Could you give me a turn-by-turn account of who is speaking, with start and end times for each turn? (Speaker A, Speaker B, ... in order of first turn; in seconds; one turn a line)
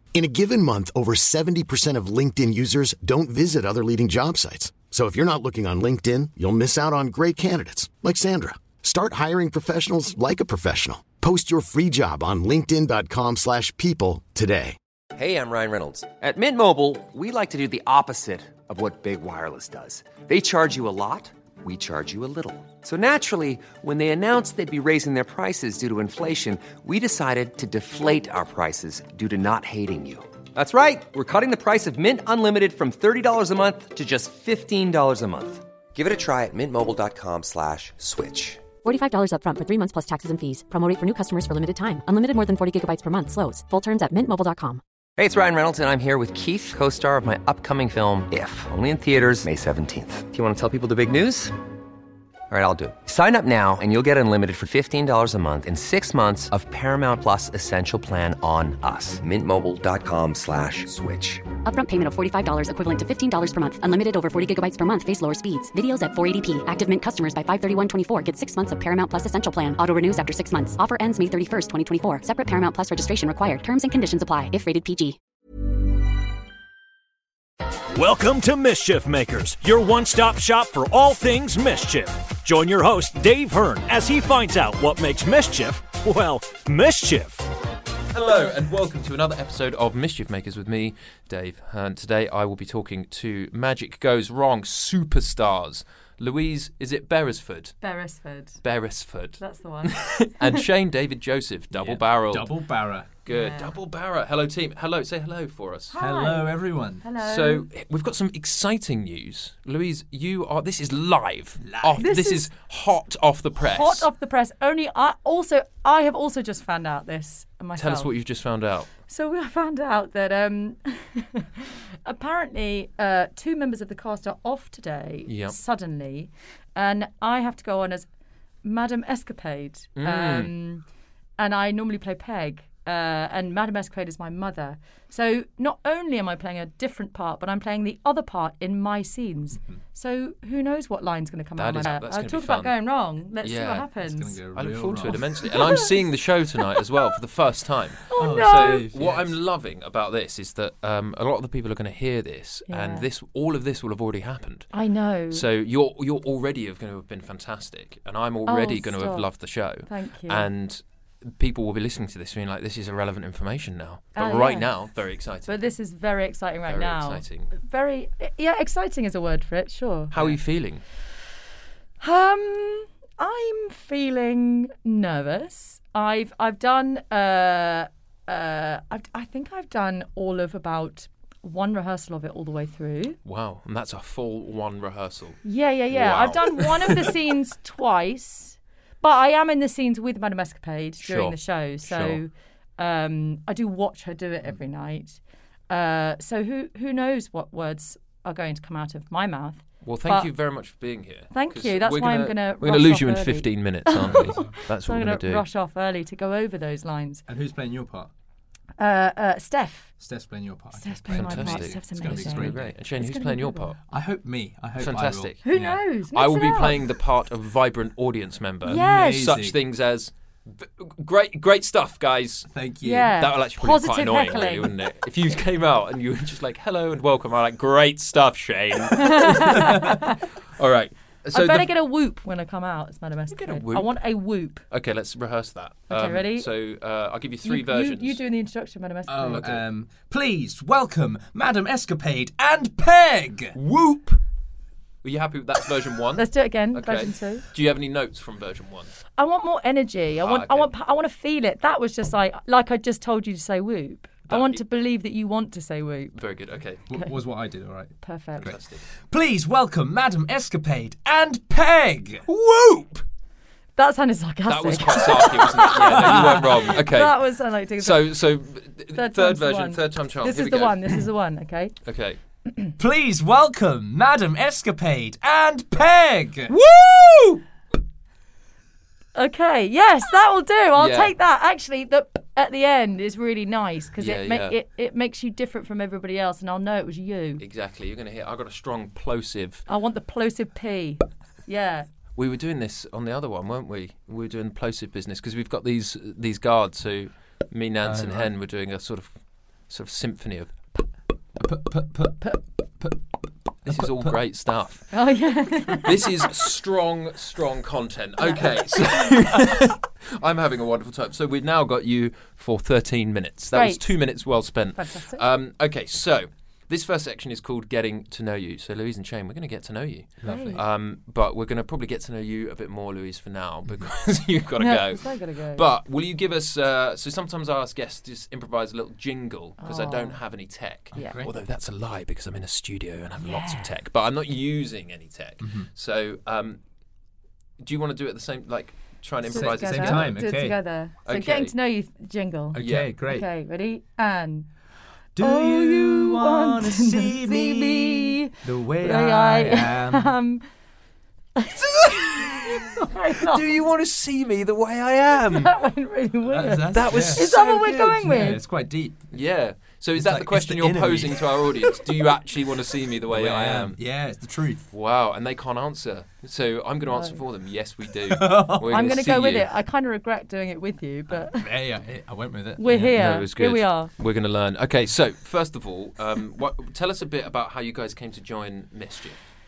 Speaker A: 0.1-14.8
Speaker B: 15.1-38.6
Speaker C: 38.8-44.8
Speaker B: 45.2-51.6
Speaker B: 52.5-61.5
Speaker C: 61.6-75.2
Speaker D: 77.9-87.4
Speaker E: 88.1-97.8
Speaker F: 97.8-98.6
Speaker E: 98.6-102.6
Speaker F: 99.4-100.3
Speaker G: 101.7-103.1
Speaker E: 103.2-106.0
Speaker F: 103.3-103.8
Speaker F: 105.9-107.7
Speaker G: 106.0-107.0
Speaker E: 107.2-114.1
Speaker G: 111.6-112.0
Speaker F: 112.0-112.5
Speaker F: 113.6-118.1
Speaker E: 117.8-118.9
Speaker F: 119.1-128.1
Speaker E: 125.3-125.6
Speaker F: 128.6-130.8
Speaker E: 129.9-130.5
Speaker F: 131.4-144.4
Speaker E: 141.6-142.8
Speaker E: 143.4-143.9
Speaker G: 144.0-145.2
Speaker E: 144.5-154.8
Speaker F: 145.4-145.9
Speaker F: 148.0-148.9
Speaker G: 148.2-149.4
Speaker F: 152.7-153.1
Speaker F: 154.7-155.4
Speaker E: 155.3-165.7
Speaker F: 158.4-159.3
Speaker F: 159.8-160.5
Speaker F: 164.2-164.7
Speaker F: 165.5-170.1
Speaker E: 166.7-167.5
Speaker E: 170.1-170.8
Speaker F: 172.0-183.2
Speaker E: 183.2-187.2
Speaker F: 185.4-200.3
Speaker E: 191.0-192.2
Speaker E: 199.8-205.4
Speaker F: 201.3-207.2
Speaker G: 204.0-204.6
Speaker G: 207.3-208.1
Speaker F: 208.8-209.9
Speaker G: 210.0-212.7
Speaker F: 210.8-213.7
Speaker E: 211.1-213.8
Speaker G: 213.9-215.8
Speaker E: 214.8-215.4
Speaker F: 215.4-216.8
Speaker E: 216.1-222.5
Speaker F: 218.6-219.2
Speaker G: 218.7-219.6
Speaker G: 222.5-223.2
Speaker F: 222.8-224.7
Speaker E: 223.2-231.7
Speaker F: 229.0-230.2
Speaker F: 231.3-234.6
Speaker E: 233.3-233.9
Speaker E: 234.7-238.2
Speaker F: 235.9-236.5
Speaker F: 237.4-239.4
Speaker G: 239.1-243.6
Speaker E: 239.3-239.6
Speaker E: 243.5-244.2
Speaker E: 245.0-248.9
Speaker F: 246.2-247.4
Speaker F: 249.2-256.2
Speaker E: 250.2-250.7
Speaker E: 254.3-254.6
Speaker E: 256.1-256.9
Speaker G: 256.9-262.2
Speaker F: 258.0-258.5
Speaker E: 258.4-258.8
Speaker E: 262.2-263.0
Speaker F: 263.8-268.1
Speaker E: 264.5-267.2
Speaker G: 265.8-266.6
Speaker E: 267.8-271.0
Speaker F: 268.9-271.7
Speaker E: 271.8-272.2
Speaker G: 272.8-276.5
Speaker E: 276.5-277.4
Speaker F: 279.1-287.4
Speaker E: 280.8-281.1
Speaker E: 284.0-284.6
Speaker E: 287.4-289.6
Speaker F: 289.7-291.9
Speaker E: 292.1-299.1
Speaker G: 297.8-298.3
Speaker E: 299.7-300.5
Speaker G: 301.4-303.0
Speaker G: 303.6-304.2
Speaker E: 303.7-304.9
Speaker F: 304.9-306.0
Speaker E: 305.7-336.6
Speaker F: 313.5-313.9
Speaker F: 314.7-315.2
Speaker G: 320.2-320.6
Speaker F: 320.2-320.6
Speaker F: 324.6-325.7
Speaker F: 329.6-330.2
Speaker F: 330.9-331.2
Speaker G: 330.9-331.3
Speaker F: 333.2-333.7
Speaker G: 335.4-335.7
Speaker E: 337.6-340.2
Speaker F: 339.2-344.5
Speaker G: 339.3-340.6
Speaker E: 341.0-341.5
Speaker G: 342.5-343.3
Speaker E: 342.6-342.9
Speaker G: 345.1-350.1
Speaker F: 345.2-350.4
Speaker F: 351.4-353.5
Speaker E: 351.6-352.8
Speaker E: 353.3-355.5
Speaker F: 355.3-358.4
Speaker G: 356.2-359.2
Speaker E: 356.7-357.4
Speaker E: 359.1-363.8
Speaker G: 359.9-361.8
Speaker G: 363.1-364.7
Speaker E: 364.7-369.5
Speaker F: 366.9-367.2
Speaker G: 368.1-368.9
Speaker F: 368.7-371.5
Speaker G: 371.1-373.2
Speaker F: 372.6-373.9
Speaker E: 372.9-379.2